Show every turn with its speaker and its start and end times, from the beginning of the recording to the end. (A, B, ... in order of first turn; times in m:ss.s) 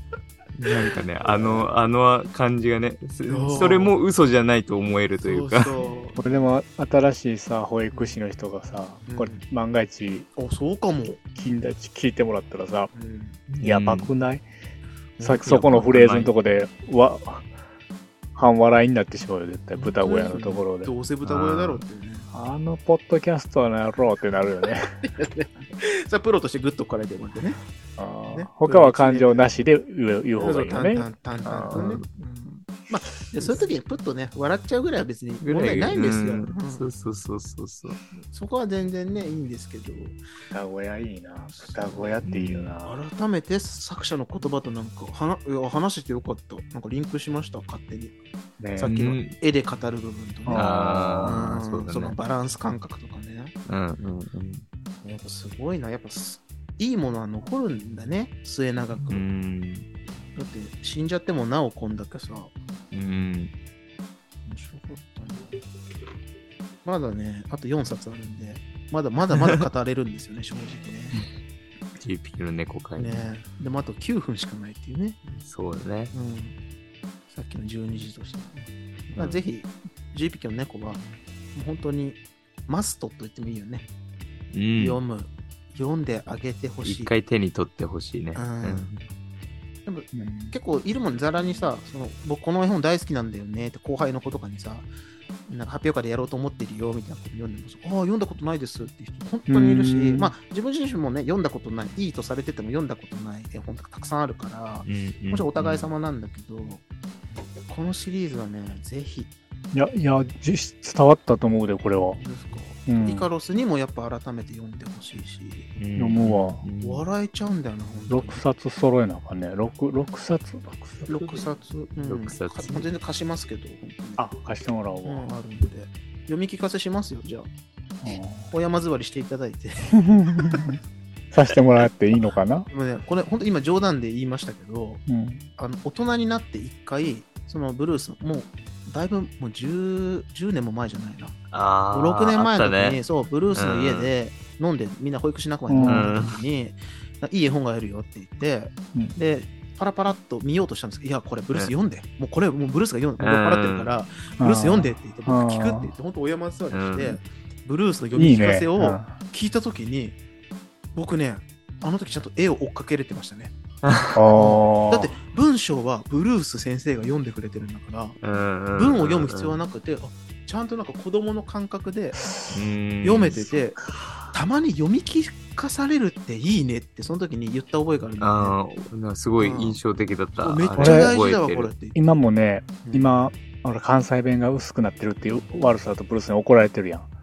0:00.6-0:05.8 A
0:01.3-0:01.7 B
0:03.2-0:03.9 C
0:05.2-0:06.2 C
0:06.2-0:10.3 B
0:07.9-0:08.2 C
0:09.1-0:09.4 C
0:10.4-0:11.2 C
0:11.3-0:12.9 B
0:12.9-0:13.4 C
0:13.5-0:14.1 A
0:13.6-0:14.4 B
0:15.2-0:15.8 C
0:15.2-0:17.5 B
0:15.4-0:16.3 A
0:18.3-0:20.9 B
0:19.7-0:22.3 C
0:21.2-0:21.8 A
0:22.3-0:25.0 B
0:25.0-0:27.6 C
0:28.0-0:31.9 B
0:28.3-0:29.5 C
0:30.4-0:36.8 C
0:31.7-0:32.0 A
0:35.4-0:38.0 A
0:38.3-0:40.2 C
0:40.5-0:43.0 B
0:41.5-0:42.3 C
0:42.3-0:42.7 A
0:42.8-0:48.1 C
0:48.6-0:48.9 B
0:48.8-0:53.5 C
0:48.9-0:49.3 A
0:50.4-0:51.5 B
0:50.5-0:52.2 A
0:53.7-0:54.6 A
0:55.0-0:59.2 C
0:59.1-0:59.9 A
1:00.4-1:02.5 C
1:02.9-1:03.5 A
1:04.4-1:05.6 C
1:06.8-1:11.2 C
1:12.0-1:13.3 A
1:13.0-1:15.4 C
1:15.4-1:16.1 A
1:16.1-1:16.6 C
1:17.3-1:23.8 C
1:24.5-1:25.0 A
1:24.8-1:27.1 C
1:26.8-1:29.0 A
1:28.4-1:28.9 C
1:29.8-1:34.9 C
1:30.1-1:30.5 B
1:35.5-1:46.8 C
1:39.5-1:40.3 B
1:44.8-1:45.9 A
1:47.7-1:49.3 C
1:49.7-1:52.2 B
1:52.2-1:55.7 C
1:52.8-1:53.3 B
1:55.8-1:57.0 A
1:56.0-1:56.6 B
1:56.8-1:58.4 C
1:58.1-2:01.4 B
2:01.1-2:04.3 C
2:02.0-2:02.8 A
2:04.2-2:05.3 B
2:05.0-2:07.5 C
2:08.0-2:08.5 B
2:08.5-2:10.7 C
2:10.0-2:10.8 B
2:11.3-2:12.7 B
2:12.7-2:15.0 C
2:15.1-2:15.4 B
2:15.6-2:21.3 C
2:21.5-2:23.0 A
2:21.9-2:40.2 C
2:23.5-2:24.1 A
2:25.7-2:26.1 B
2:25.8-2:26.4 A
2:33.2-2:33.9 A
2:34.4-2:35.9 B
2:36.7-2:37.2 A
2:38.1-2:39.1 B
2:40.9-2:43.5 C
2:43.8-2:44.2 A
2:44.1-2:45.1 B
2:44.3-2:48.2 C
2:48.2-2:49.6 A
2:48.7-2:52.2 C
2:52.2-2:52.6 B
2:52.5-2:53.4 A
2:53.0-2:53.8 C
2:53.8-2:54.3 B
2:54.3-2:58.6 C
2:58.2-3:01.7 A
2:59.4-2:59.8 C
3:00.4-3:02.0 C
3:00.8-3:01.2 B
3:01.9-3:07.1 B
3:02.8-3:03.3 C